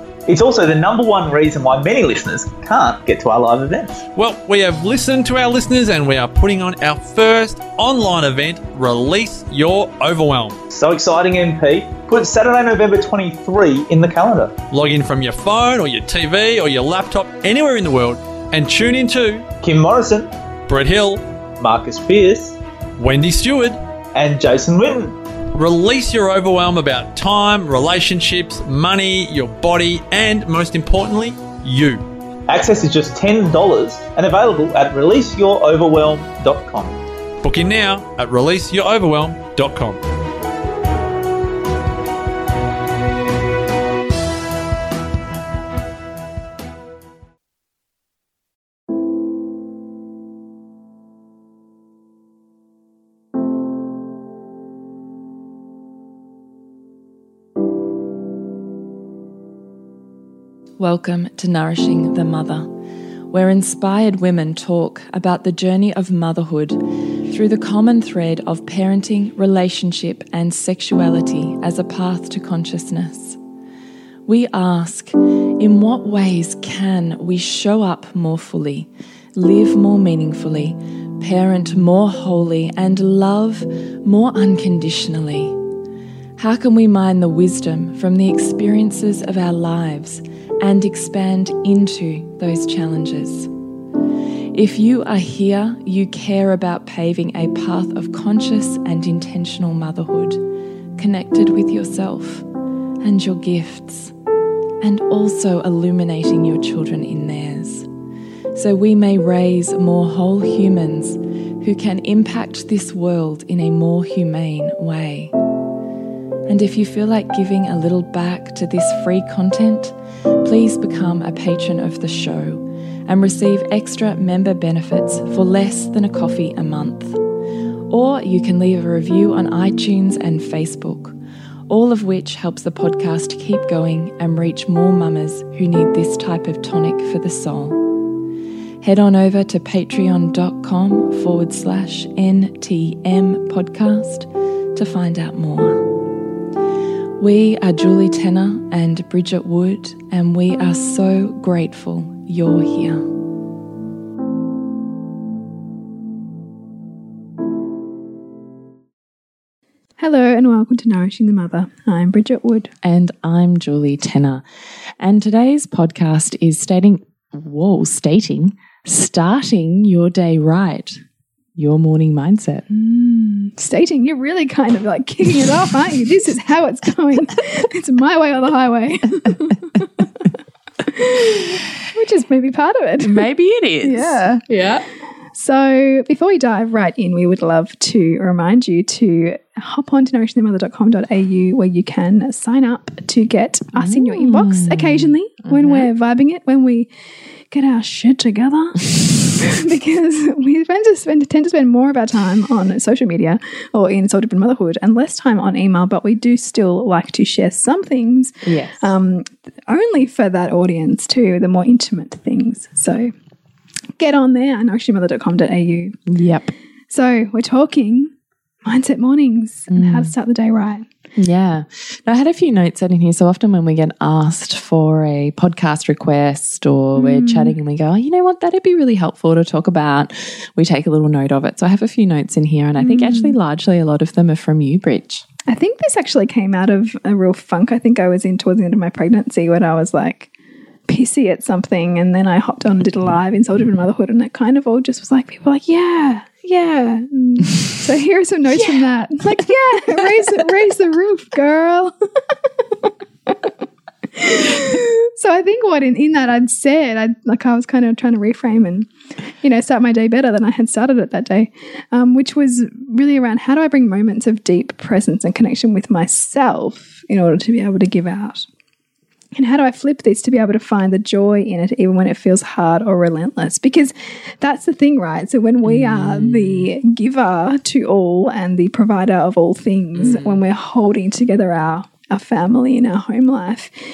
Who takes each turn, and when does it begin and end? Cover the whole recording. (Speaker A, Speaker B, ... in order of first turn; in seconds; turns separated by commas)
Speaker A: 0.3-4.0, Speaker B: 4.2-10.6, Speaker A: 10.7-14.6, Speaker B: 14.7-19.5, Speaker A: 19.6-20.3, Speaker B: 20.7-21.2, Speaker A: 21.6-22.6, Speaker B: 23.0-23.8, Speaker A: 24.1-25.2, Speaker B: 25.5-32.0, Speaker A: 32.5-37.0, Speaker B: 37.4-40.0, Speaker C: 60.8-62.7, Speaker C: 63.3-73.4, Speaker C: 74.3-85.6, Speaker C: 86.4-93.5, Speaker C: 94.5-100.4, Speaker C: 101.0-102.5, Speaker C: 103.0-104.2, Speaker C: 104.8-107.9, Speaker C: 108.5-115.3, Speaker C: 116.5-127.2, Speaker C: 127.9-131.2, Speaker C: 131.7-138.0, Speaker C: 138.8-146.0, Speaker C: 147.2-153.1, Speaker D: 160.0-162.7, Speaker C: 162.8-164.4, Speaker C: 165.0-171.0, Speaker C: 171.6-172.7, Speaker D: 172.7-180.1, Speaker D: 180.8-183.2, Speaker C: 183.0-184.8, Speaker D: 183.8-184.4, Speaker D: 185.3-196.9, Speaker C: 193.8-195.9, Speaker D: 197.5-213.1, Speaker C: 208.4-208.9, Speaker D: 214.0-216.0, Speaker C: 216.1-216.5, Speaker D: 216.9-218.1, Speaker D: 218.6-220.9, Speaker C: 219.7-220.1, Speaker C: 221.2-235.2, Speaker D: 226.9-227.6, Speaker D: 232.8-233.4, Speaker D: 235.5-240.3, Speaker D: 240.9-251.9, Speaker C: 248.5-248.9, Speaker D: 252.7-253.5, Speaker D: 254.1-258.9, Speaker D: 259.4-268.5, Speaker D: 269.4-283.7, Speaker C: 275.6-276.7, Speaker C: 280.0-280.4